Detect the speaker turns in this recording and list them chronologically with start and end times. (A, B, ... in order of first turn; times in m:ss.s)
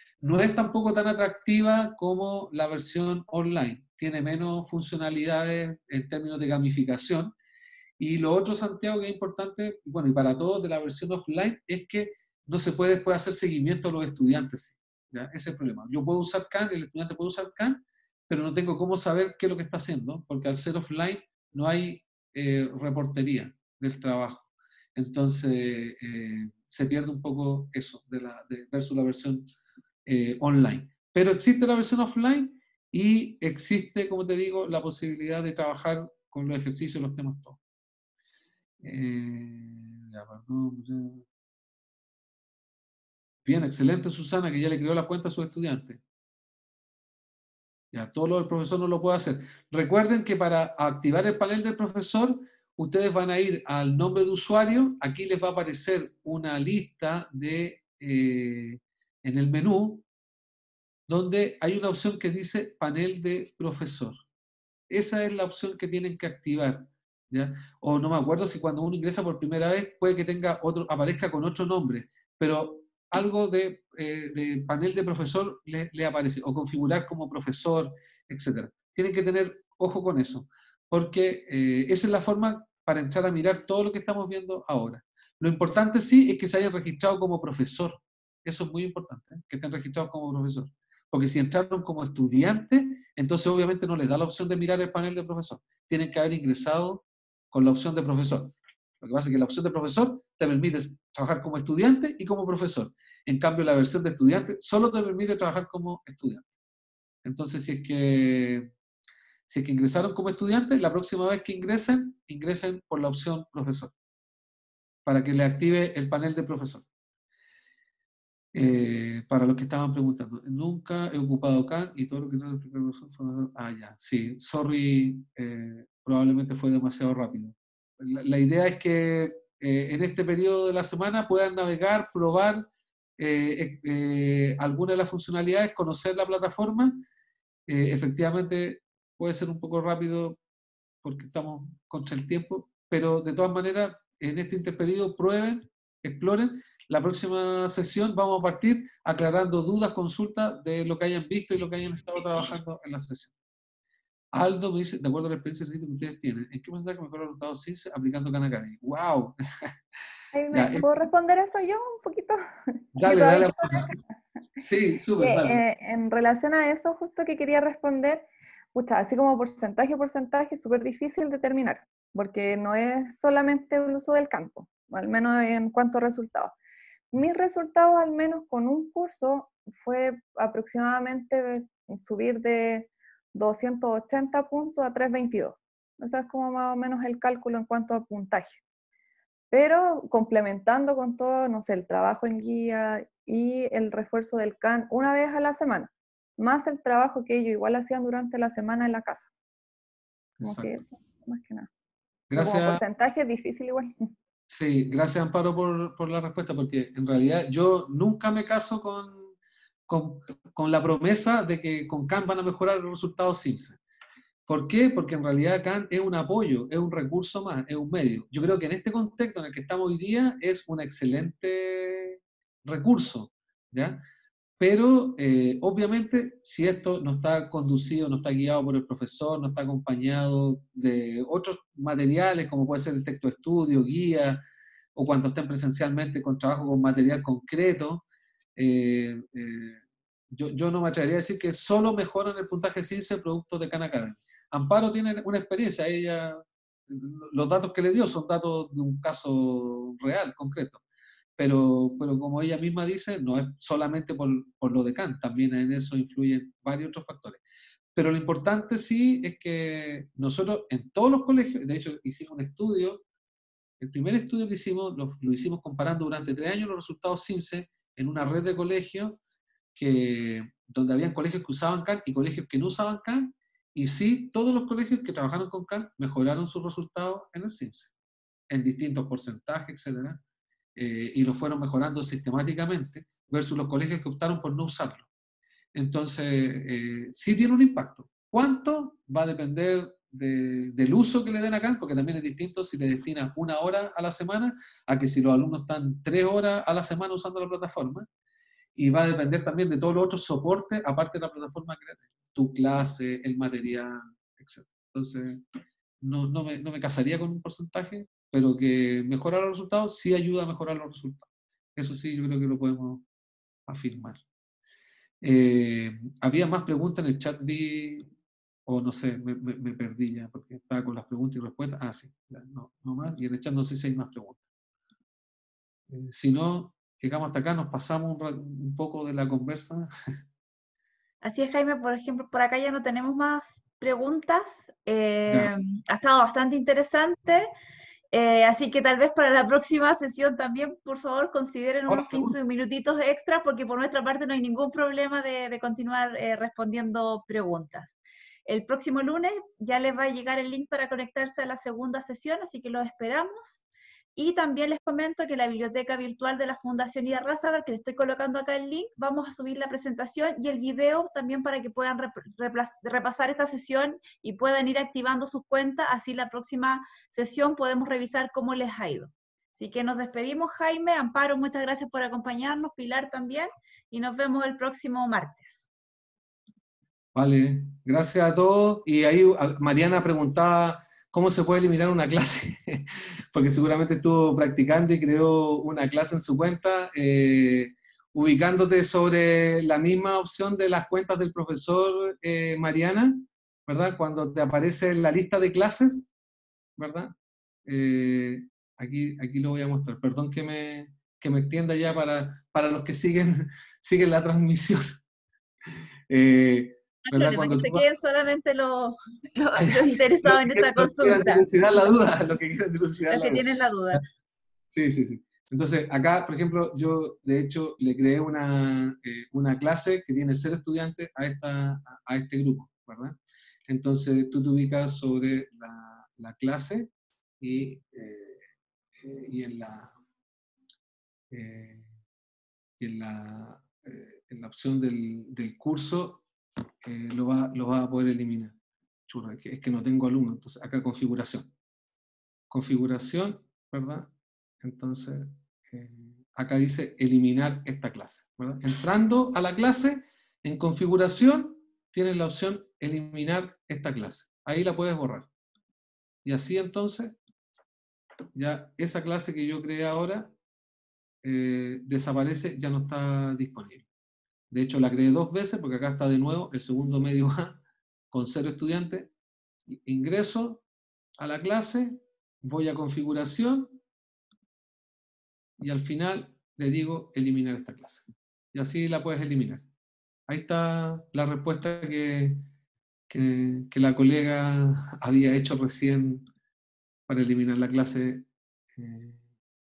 0:00.2-0:07.3 A
0:08.0-0:24.4 A
0:25.0-0:29.5 A
0:30.0-0:37.6 A
0:38.8-0:41.2 A
0:43.4-0:46.0 A
0:47.9-1:00.0 A
1:01.1-1:04.2 A
1:04.9-1:46.5 A
1:47.2-1:48.7 A
1:49.5-1:53.9 A
1:55.0-1:56.8 A
1:58.5-2:17.0 A
2:17.7-2:20.4 A
2:21.0-2:33.3 A
2:34.3-2:39.7 A
2:40.3-2:44.0 B
2:40.5-2:40.9 A
2:43.0-2:43.9 A
2:44.6-2:45.6 A
2:45.2-2:56.5 B
2:57.1-3:08.6 B
3:09.5-3:19.3 B
3:20.4-3:20.8 A
3:20.4-3:21.7 B
3:22.3-3:22.8 A
3:22.3-3:24.1 B
3:24.5-3:29.3 A
3:29.9-3:33.8 A
3:34.5-3:44.0 A
3:44.6-3:54.4 A
3:55.0-3:58.0 A
3:58.6-4:10.8 A
4:11.4-4:17.4 A
4:17.9-4:23.0 A
4:23.8-4:29.2 A
4:29.7-4:37.9 A
4:38.5-4:40.2 A
4:40.8-4:45.1 A
4:45.7-4:58.1 A
4:58.8-5:05.4 A
5:06.0-5:13.0 A
5:13.7-5:14.2 A
5:15.2-5:18.1 A
5:18.7-5:24.4 A
5:25.9-5:29.9 A
5:31.2-5:37.5 C
5:35.3-5:35.5 A
5:38.1-5:53.6 C
5:41.9-5:42.4 A
5:54.2-6:15.6 C
6:17.1-6:36.1 A
6:36.8-6:37.1 A
6:37.6-6:45.0 A
6:46.1-6:47.8 A
6:47.1-6:51.5 C
6:49.6-6:53.4 A
6:53.1-6:54.0 C
6:54.7-7:03.2 A
7:03.7-7:06.9 A
7:07.4-7:08.4 A
7:09.0-7:09.9 A
7:11.3-7:11.9 A
7:12.8-7:16.2 A
7:16.8-7:18.6 A
7:19.1-7:21.5 A
7:22.5-7:35.3 A
7:36.2-7:37.2 A
7:38.3-7:40.3 A
7:41.2-7:43.8 A
7:44.5-7:47.6 A
7:48.1-7:49.1 A
7:49.7-7:50.6 A
7:51.2-7:53.8 A
7:55.6-7:59.6 A
8:00.3-8:02.4 A
8:03.1-8:06.2 A
8:07.1-8:09.2 A